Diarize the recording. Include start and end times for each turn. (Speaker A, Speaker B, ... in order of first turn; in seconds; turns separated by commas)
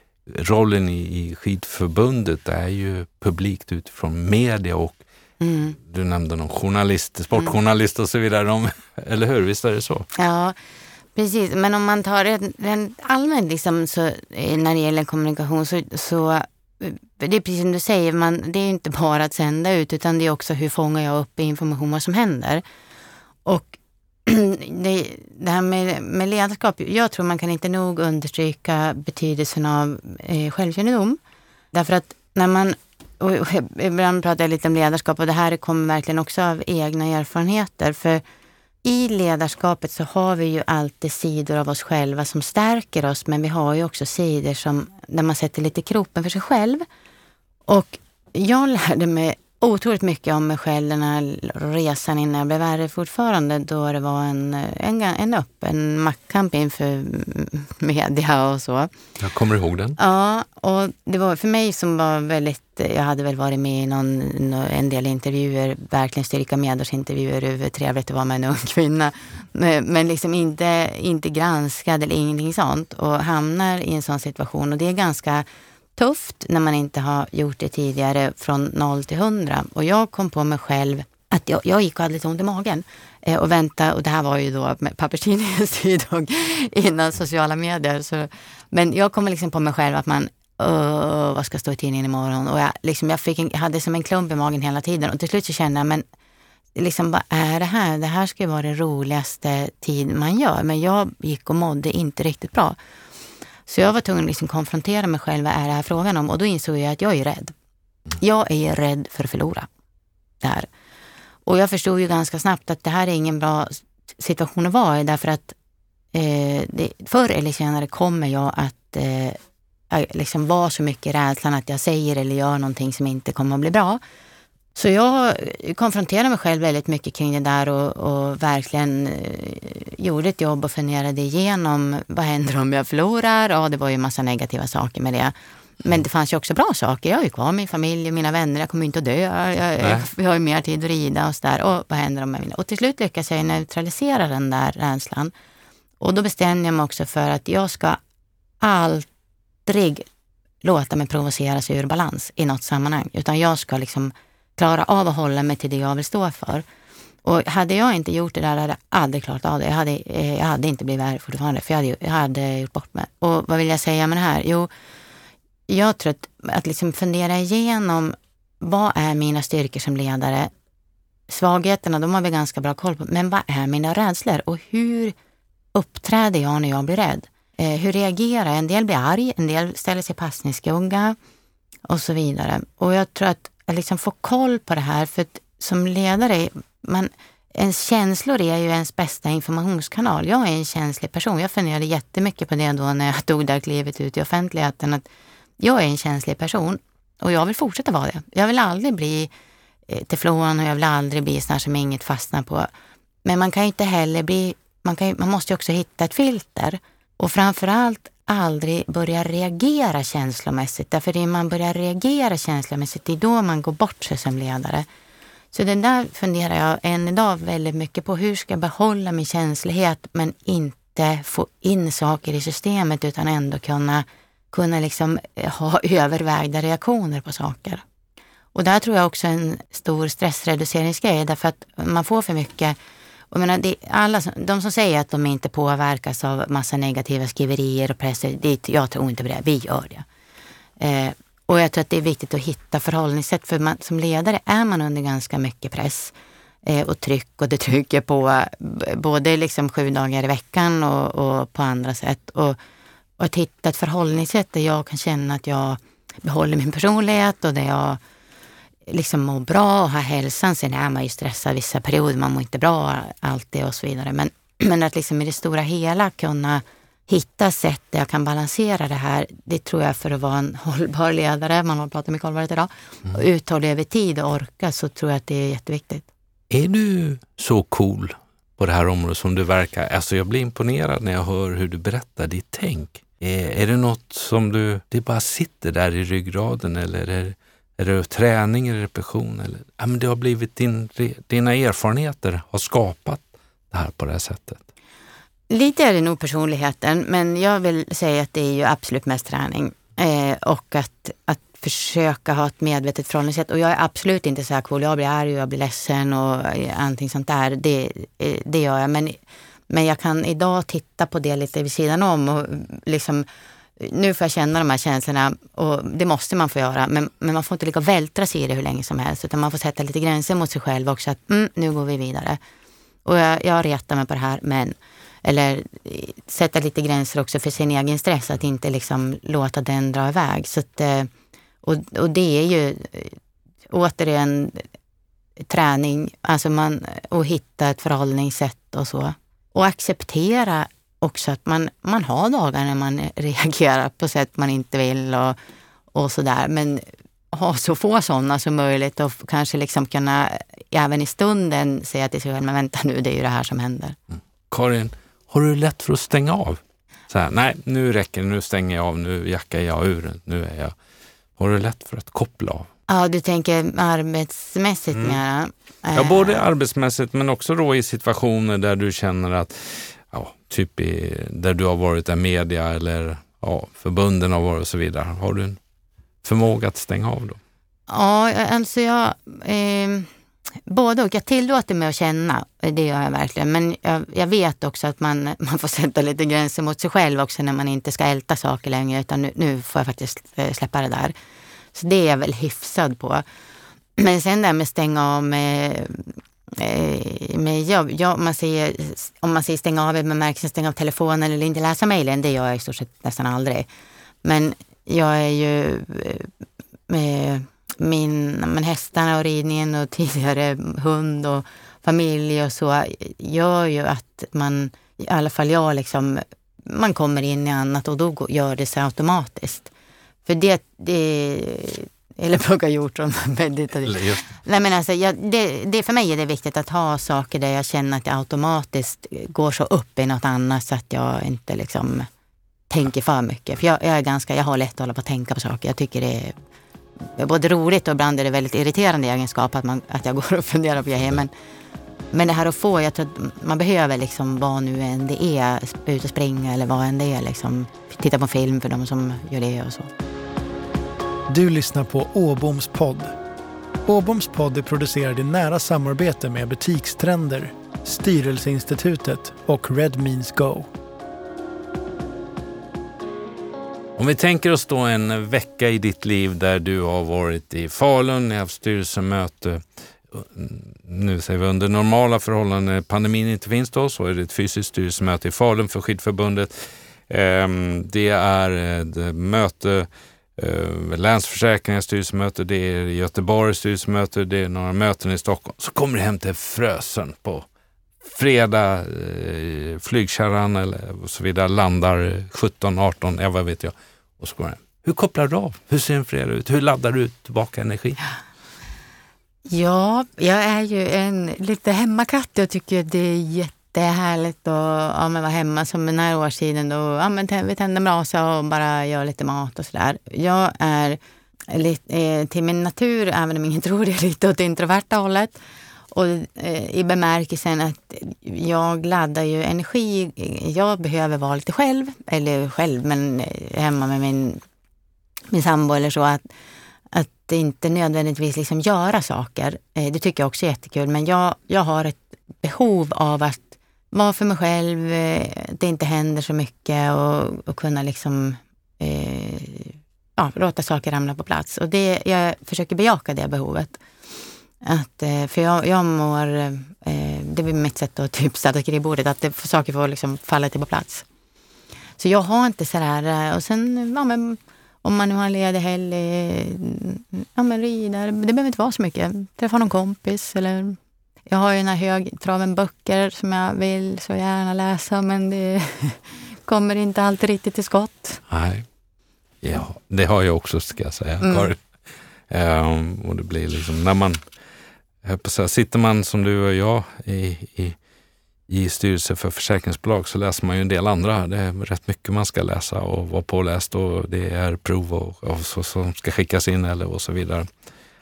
Speaker A: 0.3-5.0, Speaker B: 5.4-5.8, Speaker A: 5.8-10.1, Speaker B: 10.1-10.6, Speaker B: 11.1-22.6, Speaker B: 23.4-31.2, Speaker B: 31.7-38.2, Speaker B: 38.8-46.9, Speaker B: 47.7-58.9, Speaker A: 59.2-60.0, Speaker B: 60.0-96.0, Speaker B: 96.7-102.8, Speaker B: 103.7-107.5, Speaker B: 108.2-109.7, Speaker B: 110.4-110.7, Speaker B: 111.5-115.5, Speaker B: 116.1-119.4, Speaker B: 119.9-124.0, Speaker B: 124.7-145.3, Speaker A: 139.8-140.1, Speaker B: 146.0-148.0, Speaker B: 148.6-149.1, Speaker B: 149.7-150.1, Speaker B: 150.6-156.6, Speaker B: 157.2-164.7, Speaker B: 165.7-170.5, Speaker B: 171.3-175.1, Speaker B: 175.7-181.2, Speaker B: 181.8-195.0, Speaker B: 195.6-199.3, Speaker B: 199.9-202.7, Speaker B: 203.2-214.8, Speaker B: 215.5-227.8, Speaker B: 228.5-232.8, Speaker B: 233.3-240.1, Speaker B: 240.8-252.6, Speaker B: 253.2-258.0, Speaker B: 258.9-276.1, Speaker A: 276.5-294.6, Speaker B: 295.5-313.2, Speaker B: 313.8-322.4, Speaker B: 323.0-331.1, Speaker B: 331.6-333.1, Speaker B: 333.7-334.6, Speaker B: 335.5-345.4, Speaker B: 345.9-353.9, Speaker A: 354.5-360.7, Speaker A: 361.4-362.7, Speaker B: 362.9-366.4, Speaker A: 365.9-375.6, Speaker A: 376.2-377.4, Speaker B: 377.9-380.1, Speaker B: 380.7-391.1, Speaker B: 391.7-393.2, Speaker B: 393.9-403.6, Speaker B: 404.2-406.3, Speaker B: 406.9-419.7, Speaker B: 420.2-432.1, Speaker A: 423.8-424.3, Speaker B: 432.7-436.4, Speaker B: 437.0-441.3, Speaker B: 442.1-449.9, Speaker C: 451.3-453.1, Speaker C: 453.9-460.7, Speaker A: 464.0-476.5, Speaker A: 477.1-487.4, Speaker A: 488.0-498.0, Speaker B: 499.5-515.4, Speaker B: 515.9-524.4, Speaker B: 525.3-526.2, Speaker B: 526.9-543.8, Speaker B: 544.6-551.0, Speaker B: 552.0-560.8, Speaker B: 561.3-568.2, Speaker A: 568.3-568.6, Speaker A: 569.4-571.6, Speaker B: 571.2-571.5, Speaker A: 572.3-574.2, Speaker A: 575.0-577.8, Speaker A: 578.5-587.5